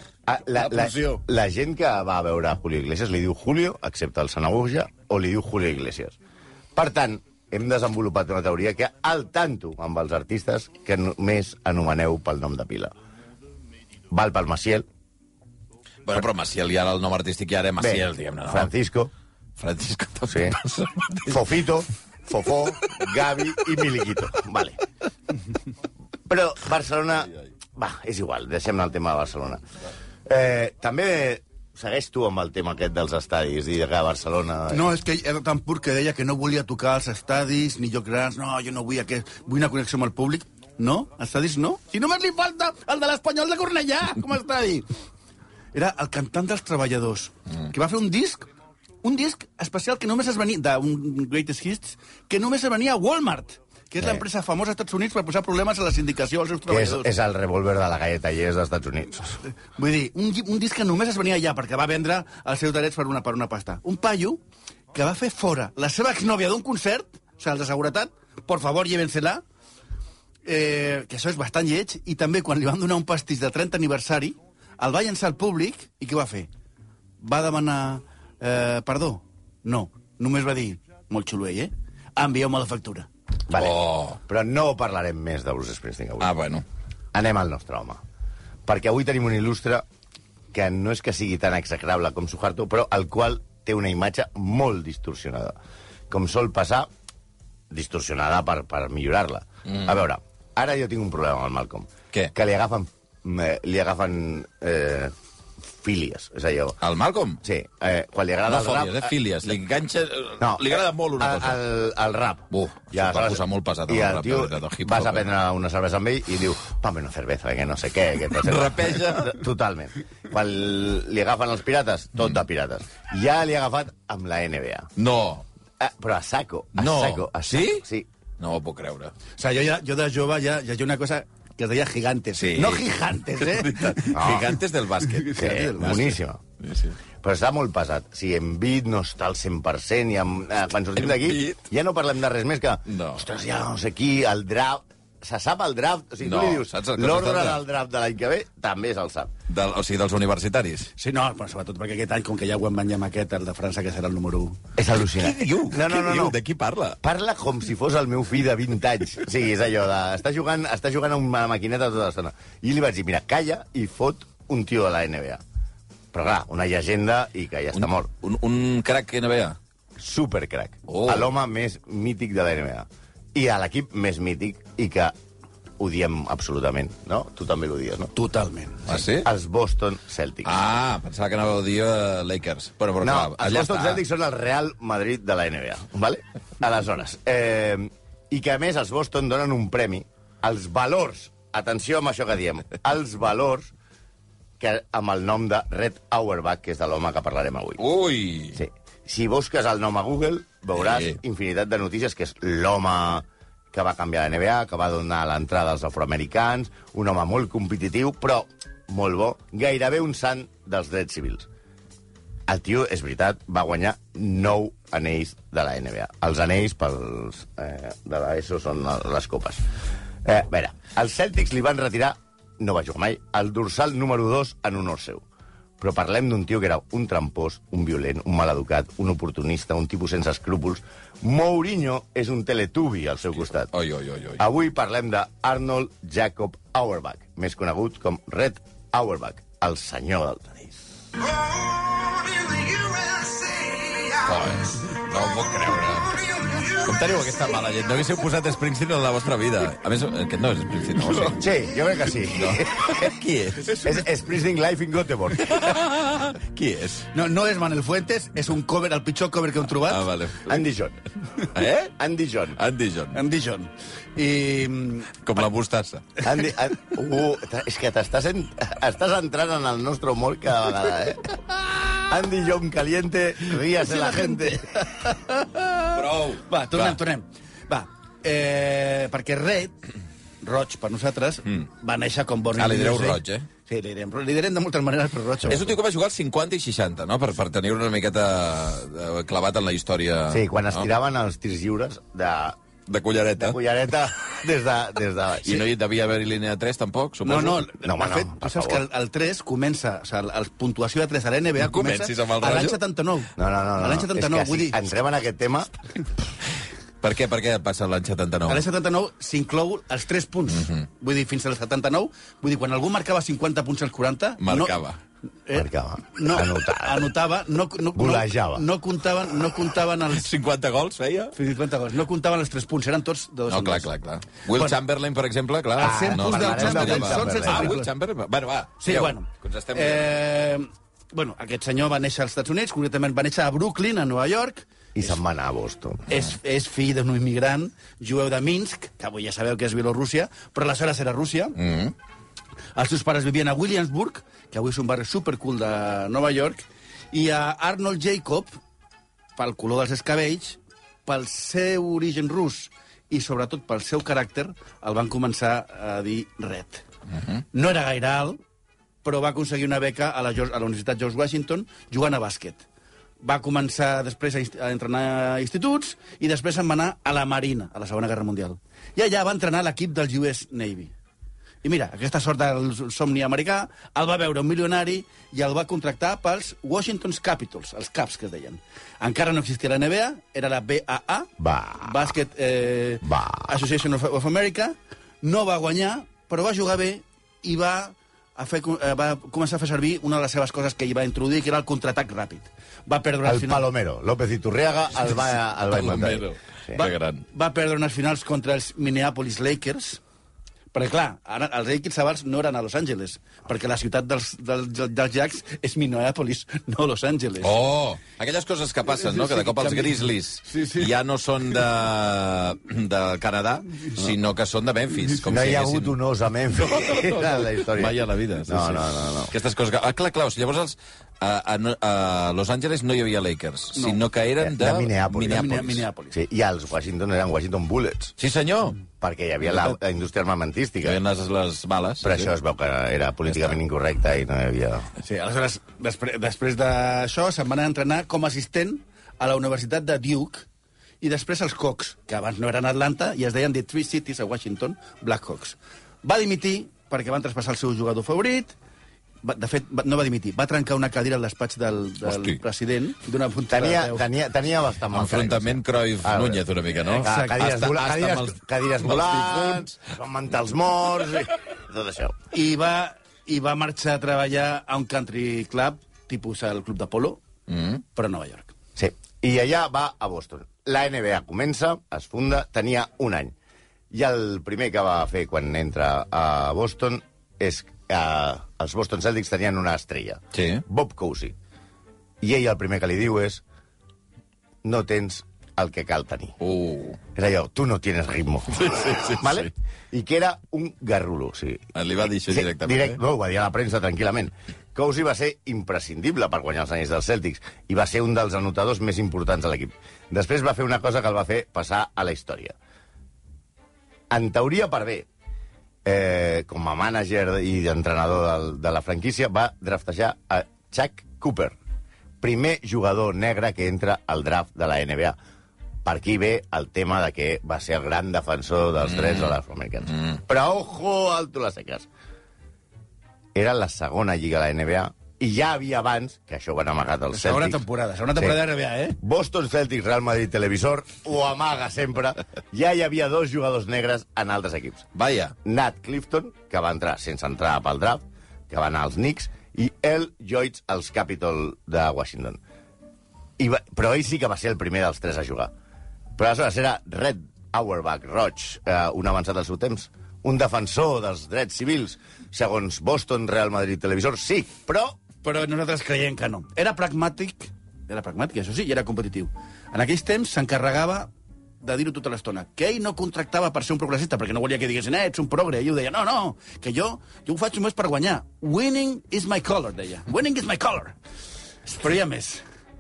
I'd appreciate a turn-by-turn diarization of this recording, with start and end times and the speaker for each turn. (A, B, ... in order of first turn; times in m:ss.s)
0:00.3-0:06.2 A
0:00.9-0:01.2 B
0:06.8-0:13.0 A
0:14.1-0:14.9 A
0:16.0-0:18.7 C
0:17.8-0:19.1 A
0:19.6-0:21.4 C
0:20.3-0:20.6 A
0:21.3-0:24.8 A
0:26.3-0:29.6 A
0:30.3-0:34.9 A
0:34.7-0:44.9 B
0:45.7-0:48.5 B
0:49.0-0:57.1 B
0:56.7-0:59.4 A
0:59.5-1:04.4 B
1:04.9-1:09.4 B
1:10.4-1:16.5 B
1:17.2-1:23.1 B
1:23.5-1:26.3 A
1:23.5-1:24.2 C
1:26.2-1:26.6 C
1:27.1-1:28.0 A
1:28.7-1:29.9 A
1:30.5-1:35.6 A
1:36.1-1:36.9 A
1:37.7-1:45.1 A
1:45.8-1:46.8 A
1:46.8-1:47.4 C
1:47.4-1:49.1 A
1:48.5-1:51.6 C
1:50.4-2:04.9 A
1:52.5-1:55.3 C
1:58.4-1:59.4 C
2:05.0-2:05.5 C
2:05.8-2:08.1 A
2:06.8-2:07.8 C
2:08.4-2:09.1 C
2:09.4-2:14.5 B
2:12.4-2:12.8 C
2:13.4-2:17.0 C
2:14.1-2:14.6 A
2:15.0-2:16.1 B
2:15.4-2:16.4 A
2:17.2-2:29.3 A
2:21.0-2:21.6 C
2:22.9-2:23.2 C
2:26.2-2:27.6 C
2:29.5-2:30.9 C
2:31.0-2:34.6 B
2:34.8-2:36.4 A
2:35.1-2:37.0 C
2:37.0-2:45.4 A
2:46.1-2:48.1 A
2:47.8-2:49.6 C
2:50.0-2:55.2 A
2:50.9-2:51.3 C
2:55.8-2:58.1 A
2:58.1-2:58.8 B
2:58.9-2:59.3 C
2:58.9-3:00.6 A
3:00.4-3:04.0 C
3:03.0-3:13.7 A
3:14.6-3:17.8 A
3:17.8-3:18.6 C
3:18.5-3:31.5 A
3:20.8-3:21.2 C
3:32.5-3:39.6 A
3:40.2-3:45.2 A
3:45.8-3:53.7 A
3:53.7-3:54.4 C
3:54.4-4:00.8 A
4:02.8-4:04.0 B
4:04.2-4:11.4 C
4:11.3-4:13.1 A
4:12.3-4:14.0 C
4:13.8-4:15.7 A
4:15.4-4:17.1 C
4:17.1-4:20.1 B
4:19.8-4:20.6 C
4:20.5-4:21.0 A
4:21.5-4:21.9 C
4:22.0-4:22.6 A
4:22.6-4:23.2 C
4:23.1-4:25.2 B
4:25.2-4:26.1 C
4:26.2-4:31.3 A
4:32.0-4:34.8 A
4:34.4-4:39.8 B
4:35.9-4:37.0 C
4:40.4-4:45.8 B
4:42.6-4:43.5 C
4:45.5-4:50.9 C
4:50.3-4:52.6 A
4:52.9-4:53.6 C
4:53.4-4:55.7 A
4:55.4-4:57.7 C
4:57.2-5:04.8 B
4:57.8-4:58.8 A
5:01.6-5:02.8 C
5:03.4-5:05.7 A
5:07.0-5:08.7 C
5:08.5-5:14.8 B
5:10.5-5:10.9 C
5:14.4-5:15.0 C
5:15.5-5:20.3 B
5:15.5-5:17.1 A
5:18.0-5:18.6 A
5:20.1-5:21.3 C
5:21.4-5:23.9 B
5:23.5-5:30.2 C
5:25.8-5:27.9 B
5:25.8-5:27.8 A
5:28.8-5:35.1 B
5:35.0-5:36.1 A
5:36.1-5:41.6 B
5:41.6-5:41.9 C
5:42.8-5:48.5 B
5:49.4-5:56.8 B
5:57.5-5:58.4 B
5:59.0-6:02.6 B
6:03.2-6:10.9 B
6:11.6-6:21.3 B
6:21.4-6:22.1 A
6:21.8-6:33.7 B
6:23.0-6:23.5 A
6:33.2-6:36.8 A
6:35.7-6:37.2 C
6:36.8-6:40.0 B
6:40.7-6:47.6 B
6:47.4-6:56.0 C
6:49.0-6:50.9 B
6:55.3-6:59.3 A
6:56.6-7:05.9 C
7:03.8-7:04.0 B
7:04.4-7:05.6 A
7:05.3-7:06.2 B
7:06.1-7:08.1 A
7:08.2-7:08.8 C
7:09.0-7:11.0 A
7:10.8-7:12.3 C
7:12.0-7:14.9 A
7:13.3-7:13.6 C
7:15.0-7:20.5 B
7:21.0-7:28.5 B
7:29.2-7:34.1 B
7:32.0-7:32.4 C
7:33.5-7:42.2 A
7:34.9-7:39.7 C
7:36.9-7:37.4 B
7:42.3-7:47.2 B
7:47.5-7:47.8 C
7:48.0-7:48.5 B
7:48.8-7:53.4 A
7:53.9-8:01.4 A
8:00.3-8:00.6 C
8:02.2-8:03.4 A
8:04.6-8:06.4 A
8:06.4-8:07.0 C
8:07.2-8:11.7 A
8:08.5-8:09.5 C
8:11.8-8:13.0 C
8:12.2-8:22.6 A
8:24.1-8:25.1 A
8:25.8-8:31.6 A
8:32.2-8:35.2 A
8:35.8-8:41.9 A
8:38.9-8:39.4 C
8:39.9-8:40.2 C
8:43.4-8:47.6 A
8:47.1-8:49.0 B
8:49.0-8:54.9 A
8:55.0-8:55.4 C
8:55.4-9:02.4 A
9:03.4-9:05.5 A
9:06.2-9:15.0 A
9:15.2-9:31.0 B
9:31.6-9:32.4 B